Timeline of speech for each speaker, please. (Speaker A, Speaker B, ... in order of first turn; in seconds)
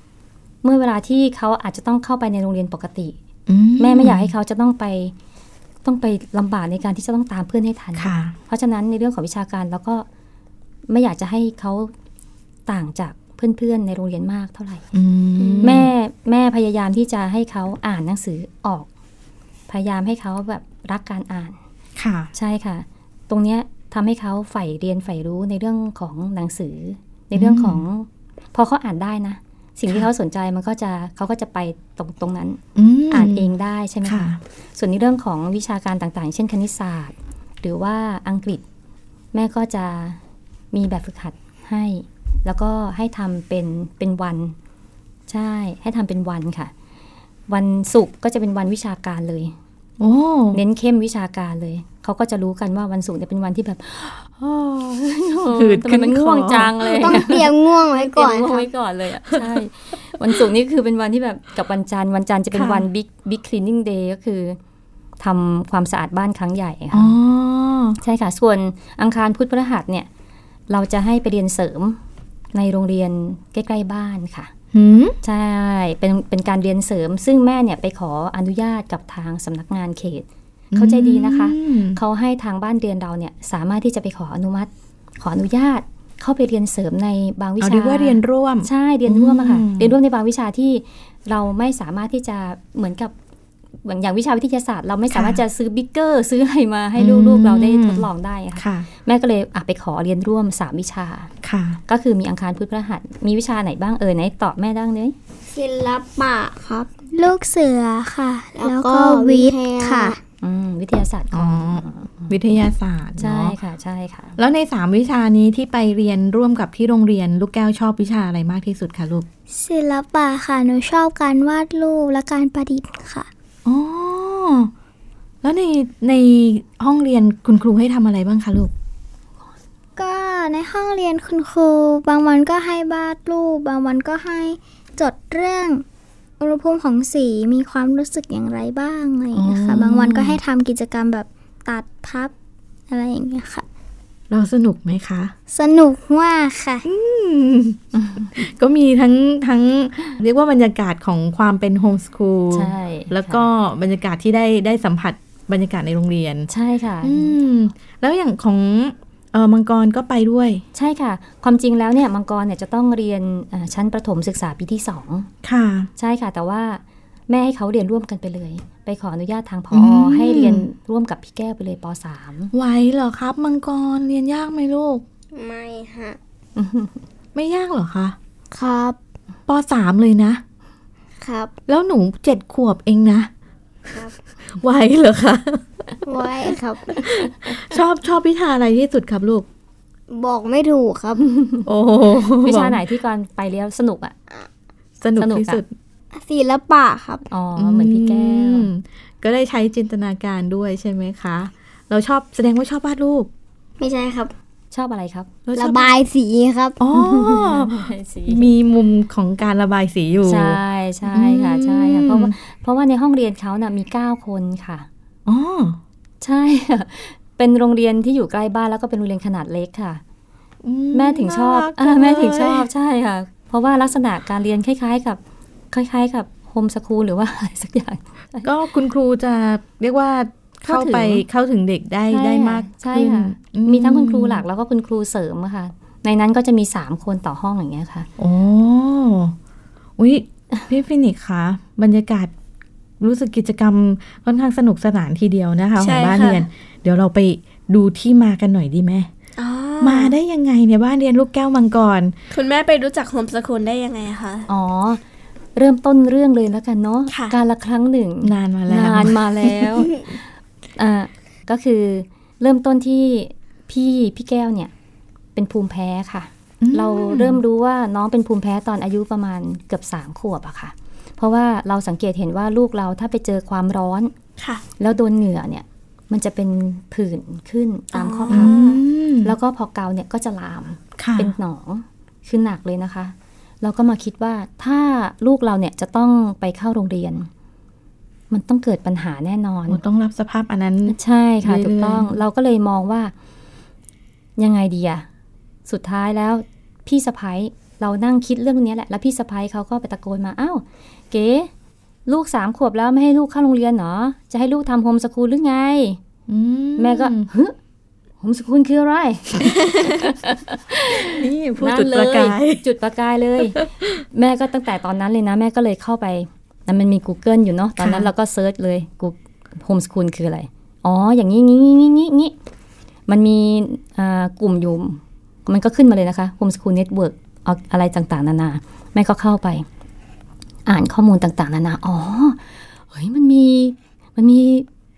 Speaker A: 0.6-3.2, 3.8-5.1, 5.8-10.1, 10.9-11.9, 12.7-14.8, 15.6-18.9, 19.7-21.6, 22.3-32.6, 33.1-38.6, 39.3-40.2, 40.7-44.5, 45.3-46.7, 47.5-49.5, 50.5-64.6, 65.2-67.1, 68.0-70.1, 70.7-72.0, 72.5-74.5, 75.2-93.1, 93.8-101.3, 101.9-105.1, 110.4-112.3, 113.2-114.3, 147.9-148.3, 152.5-153.5, 156.5-157.3, 160.7-165.3, 166.0-172.5, 176.6-177.0, 191.3-191.6, 192.4-194.1, 195.2-195.6, 197.3-198.7, 204.7-205.3, 206.9-208.5, 210.2-214.9, 216.2-220.0, 220.9-225.2, 225.7-228.5, 230.6-231.2, 232.1-238.1, 254.5-255.0, 255.6-260.2, 260.8-264.7, 265.4-274.1, 274.8-278.6, 279.2-287.3, 288.3-289.8, 290.9-293.1, 294.4-295.1, 295.7-301.5, 302.1-306.0, 306.8-307.5, 308.2-322.3, 323.1-329.6, 330.6-334.7
Speaker B: 3.5-4.3, 8.0-8.3, 14.9-15.9, 21.9-22.3, 27.3-27.8, 32.7-33.5, 34.0-34.4, 50.0-50.6, 55.5-56.9, 62.5-62.9, 66.9-68.0, 74.7-75.2, 80.7-82.0, 87.6-89.9, 95.1-95.4, 97.0-98.9, 101.4-101.8, 111.3-113.5, 114.4-119.2, 123.6-124.7, 125.4-128.7, 139.3-140.4, 144.3-145.3, 146.8-156.5, 157.0-160.6, 165.4-165.9, 169.7-170.6, 172.5-175.0, 177.3-178.2, 179.5-180.4, 181.7-183.3, 184.5-186.0, 187.0-189.4, 191.7-192.8, 195.0-195.7, 197.6-203.3, 205.4-205.9, 206.8-210.6, 211.1-212.3, 215.2-215.8, 220.6-222.7, 228.4-234.4, 238.2-239.3, 240.0-242.3, 243.0-249.1, 249.8-252.1, 258.2-259.8, 266.6-267.4, 278.3-279.3, 281.0-281.3, 289.7-292.2, 306.3-307.3, 311.0-312.6, 313.4-314.0, 317.8-318.1
Speaker C: 56.9-58.7, 105.5-106.9, 108.6-110.2, 175.3-176.2, 178.5-179.0, 181.2-181.5, 186.1-186.9, 190.1-191.2, 196.1-197.2, 203.8-204.3, 205.6-206.8
Speaker D: 107.1-110.2, 119.5-123.3, 130.0-135.8, 136.4-142.3, 142.9-143.6, 145.5-146.8
Speaker E: 245.8-246.5, 249.4-250.1, 252.3-254.5, 257.1-257.4, 277.9-278.8